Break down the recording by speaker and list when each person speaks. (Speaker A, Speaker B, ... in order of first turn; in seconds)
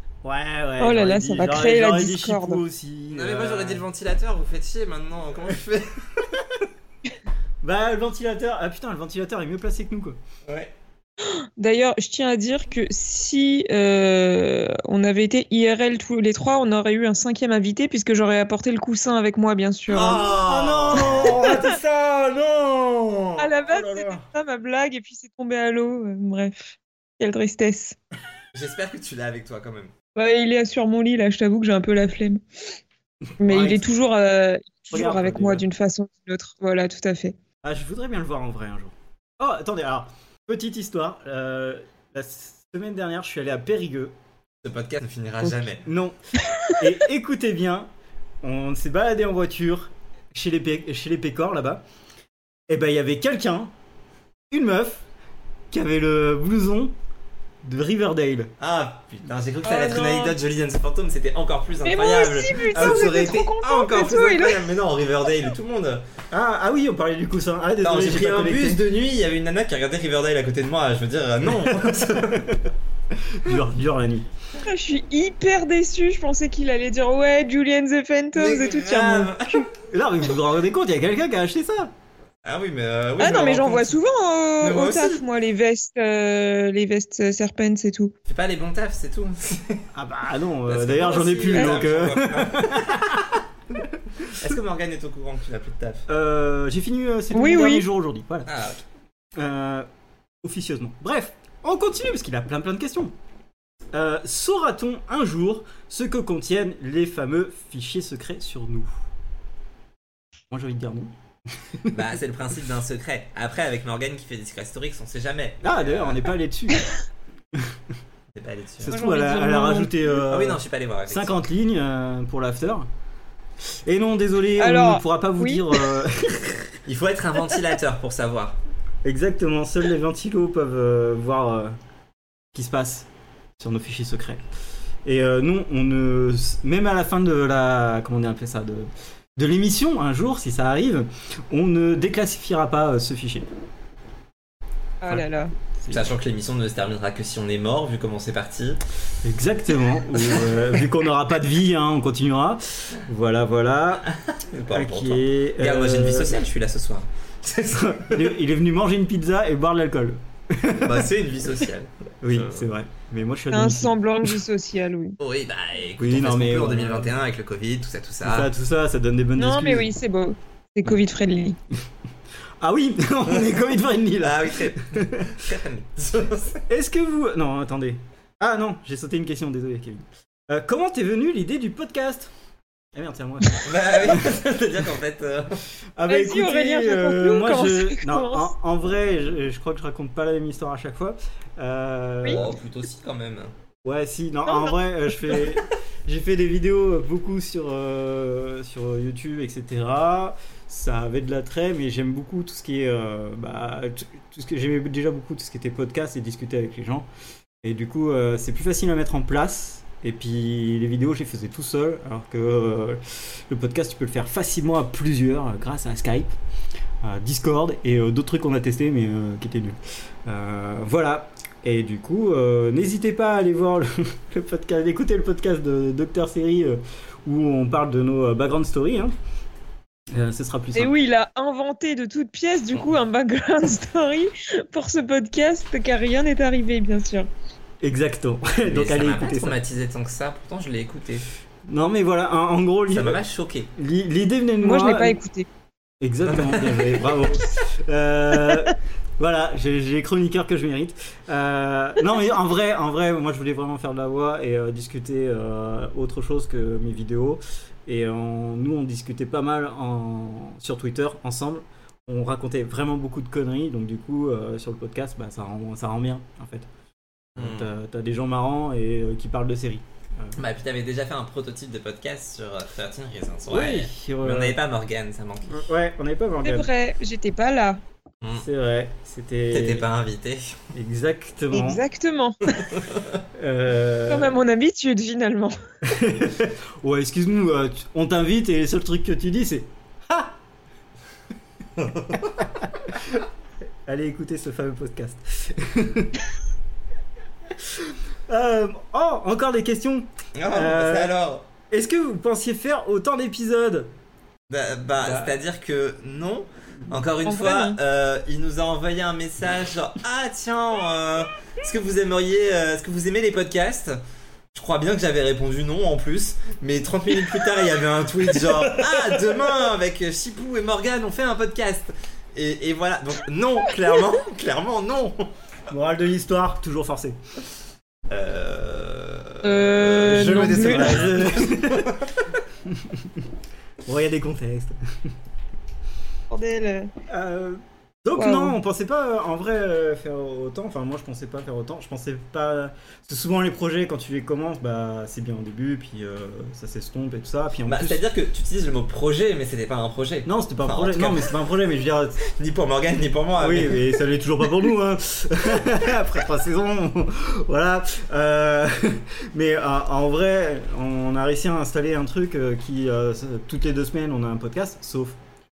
Speaker A: 0.2-3.8, 7.6-10.2, 20.4-24.2, 33.3-33.9, 34.9-35.6, 37.6-44.1, 45.8-47.9, 48.4-51.8, 52.7-53.7, 54.5-55.0, 55.7-56.9, 57.6-58.5, 66.3-68.8, 71.6-72.6, 73.2-74.3, 79.8-81.9, 89.9-93.4, 96.1-98.5, 99.3-99.9, 100.4-103.1, 103.9-108.9, 110.5-111.1, 111.6-112.0, 115.6-116.9, 118.8-122.9, 123.8-126.8, 129.0-131.8, 132.5-134.4, 135.0-143.5, 145.8-146.1, 149.2-154.1, 154.7-156.4, 157.7-161.1, 162.2-164.0, 166.0-167.1, 168.2-169.9, 172.6-175.4, 176.7-182.3, 182.9-184.6, 186.0-192.5, 193.8-207.1, 207.6-216.3, 217.0-229.1, 230.1-230.9, 237.8-239.6, 241.7-243.2, 243.8-245.2, 246.0-266.7, 267.3-270.4, 273.5-274.6, 275.5-276.7, 278.3-279.9, 280.7-281.8, 283.3-284.4, 285.8-290.3, 292.8-293.2, 293.9-296.2, 297.6-301.2, 301.7-303.9, 305.0-305.4, 318.3-319.3, 325.7-327.2, 330.4-332.0, 332.6-333.2, 333.9-334.8, 337.1-348.0, 350.2-352.2, 353.4-365.2
Speaker B: 0.8-2.6, 11.2-20.4, 20.9-21.7, 23.4-27.9, 30.1-32.4, 33.4-37.3, 46.4-46.7, 59.6-60.4, 61.8-64.7, 74.5-79.7, 83.2-88.1, 91.5-91.8, 97.3-97.8, 118.9-120.1, 124.6-126.0, 145.0-145.5, 163.5-165.2, 169.4-171.6, 186.1-188.5, 194.5-195.5, 230.7-237.3, 244.6-245.5, 276.4-277.8, 281.5-282.7, 284.1-285.6, 307.2-307.8, 329.4-331.1, 336.3-336.9, 338.2-338.5
Speaker C: 3.1-6.0, 10.4-10.7, 19.9-21.5, 28.5-29.9, 44.6-45.9, 58.6-66.0, 67.8-72.6, 78.3-79.7, 82.4-84.0, 84.6-85.2, 88.3-89.8, 90.7-93.1, 94.3-96.0, 98.5-98.8, 111.9-116.3, 118.3-119.0, 120.2-121.4, 126.8-128.6, 145.9-148.8, 150.1-150.7, 154.1-158.4, 160.8-162.7, 165.2-168.5, 174.2-176.6, 183.6-185.6, 192.2-193.5, 238.7-241.2, 242.9-243.7, 246.2-247.3, 267.4-267.7, 270.3-275.6, 279.5-280.6, 282.7-283.2, 291.8-292.3, 300.4-301.4, 304.5-314.0, 314.5-325.3, 328.1-332.4, 347.7-351.3, 352.2-354.0